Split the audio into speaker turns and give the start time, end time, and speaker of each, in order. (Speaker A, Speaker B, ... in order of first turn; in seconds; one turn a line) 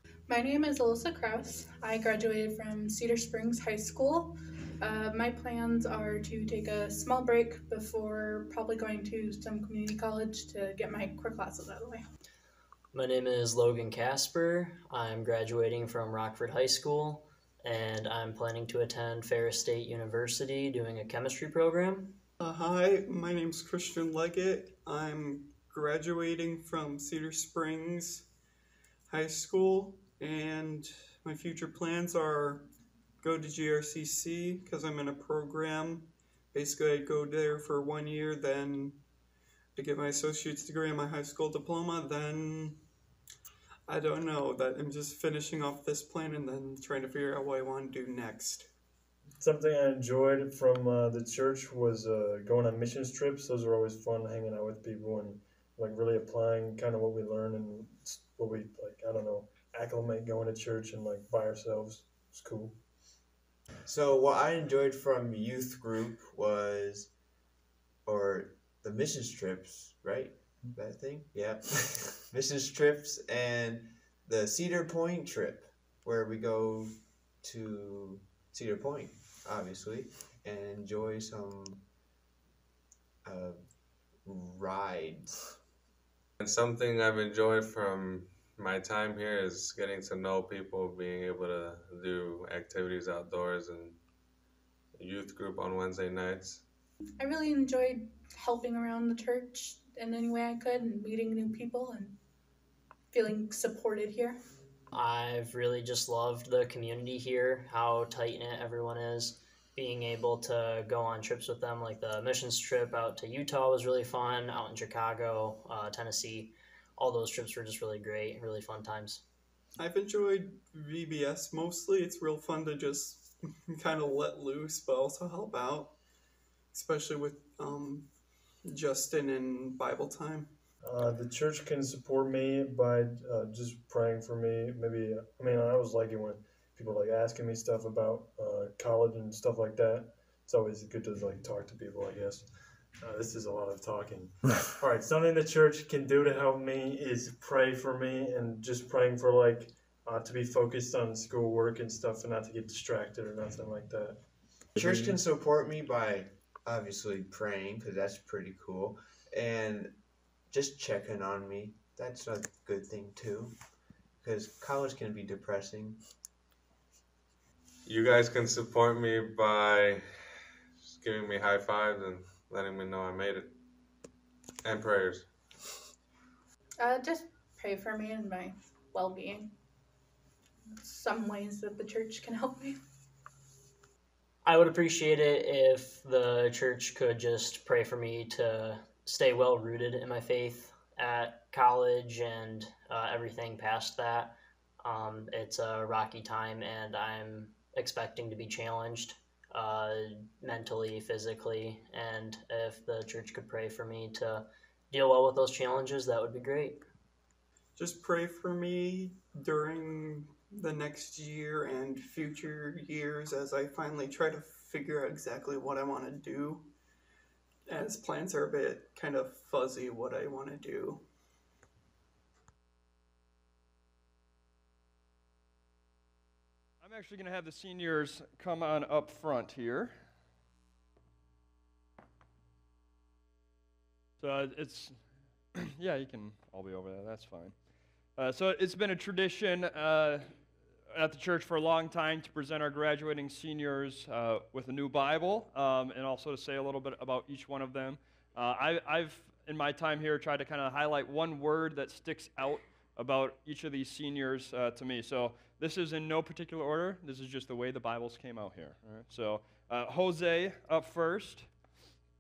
Speaker A: 0.3-12.0
Speaker B: 12.9-22.2
Speaker C: 22.4-28.3
Speaker C: 29.1-32.7
Speaker C: 33.2-39.0
Speaker C: 39.8-42.8
Speaker C: 43.9-48.7
Speaker D: 49.4-62.8
Speaker E: 63.9-67.1
Speaker E: 68.1-81.9
Speaker E: 83.2-83.6
Speaker E: 84.2-85.5
Speaker F: 86.4-94.0
Speaker F: 95.0-96.6
Speaker A: 97.2-102.2
Speaker A: 103.1-104.4
Speaker B: 104.9-119.2
Speaker C: 119.8-126.0
Speaker C: 126.7-128.1
Speaker C: 128.7-130.6
Speaker D: 130.8-142.5
Speaker D: 143.0-154.2
Speaker E: 154.8-163.6
Speaker E: 164.2-166.0
Speaker F: 167.9-170.1
Speaker F: 170.8-173.6
Speaker F: 174.6-175.3
Speaker A: 176.8-179.5
Speaker A: 180.8-182.8
Speaker B: 184.4-206.8
Speaker C: 207.8-216.7
Speaker C: 217.7-221.1
Speaker G: 226.8-229.9
Speaker G: 234.2-235.0
Speaker G: 235.6-237.6
Speaker G: 238.2-240.3
Speaker G: 240.9-261.5